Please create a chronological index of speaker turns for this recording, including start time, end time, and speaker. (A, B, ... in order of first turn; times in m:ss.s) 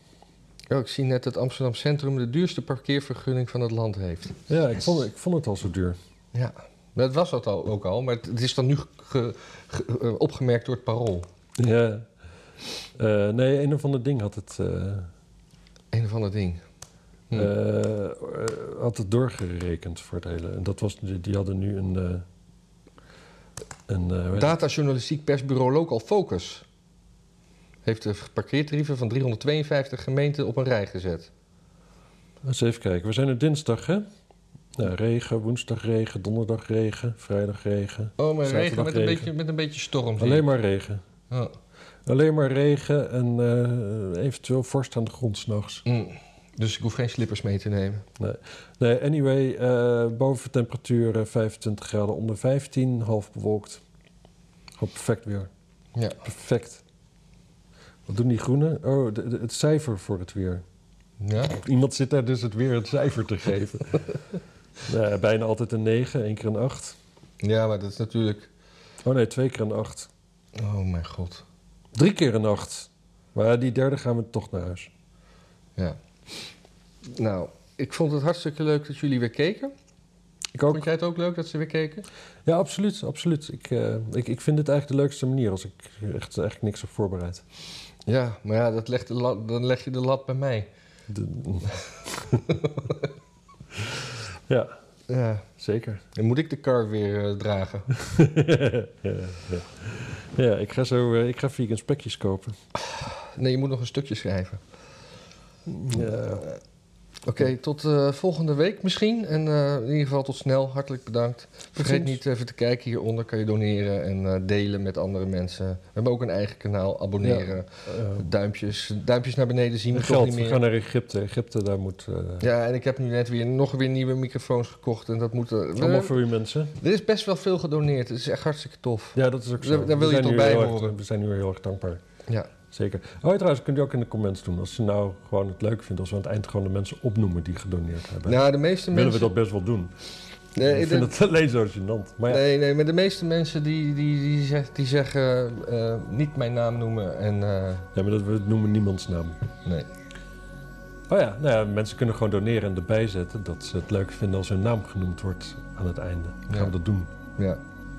0:00.7-0:04.4 A
0:04.5-0:06.0 B
0:06.3-0:11.3 A
0:11.6-0:12.1 B
0:13.0-0:15.1 B
0:15.9-0:16.6 A
0:17.3-0:22.2 B
0:23.9-0:24.6 B
0:24.4-0:26.6 A
0:27.8-0:31.3 A
0:32.4-0:34.1 B
0:34.8-0:39.3 B
0:38.2-0:40.5 A
0:40.2-0:41.0 B
0:42.1-0:45.8 B
0:45.8-0:48.0 A
0:48.2-0:53.8 B
0:54.8-0:55.5 B
0:56.0-0:56.2 A
0:56.2-0:56.8 B
0:58.1-1:00.6 B
1:01.2-1:01.6 A
1:01.4-1:04.0 B
1:04.8-1:07.0 B
1:07.4-1:08.5 A
1:09.0-1:10.1 B
1:10.6-1:11.4 A
1:12.0-1:14.9 B
1:17.1-1:19.7 A
1:20.5-1:20.8 B
1:20.7-1:22.0 A
1:22.4-1:27.4 B
1:28.1-1:30.7 A
1:31.1-1:32.6 B
1:32.5-1:33.1 A
1:34.5-1:34.7 B
1:35.1-1:35.5 A
1:35.6-1:36.0 B
1:36.2-1:37.9 A
1:37.9-1:42.6 B
1:42.8-1:44.6 A
1:45.7-1:46.5 B
1:46.0-1:46.6 A
1:47.3-2:00.6 A
1:51.8-1:52.2 B
1:57.2-1:58.3 B
1:59.9-2:02.5 B
2:02.4-2:06.2 A
2:05.8-2:06.7 B
2:06.8-2:10.9 A
2:09.2-2:12.0 B
2:12.7-2:19.9 B
2:18.3-2:19.3 A
2:20.6-2:21.1 A
2:20.6-2:22.4 B
2:22.3-2:27.9 A
2:27.9-2:29.4 B
2:31.1-2:37.1 B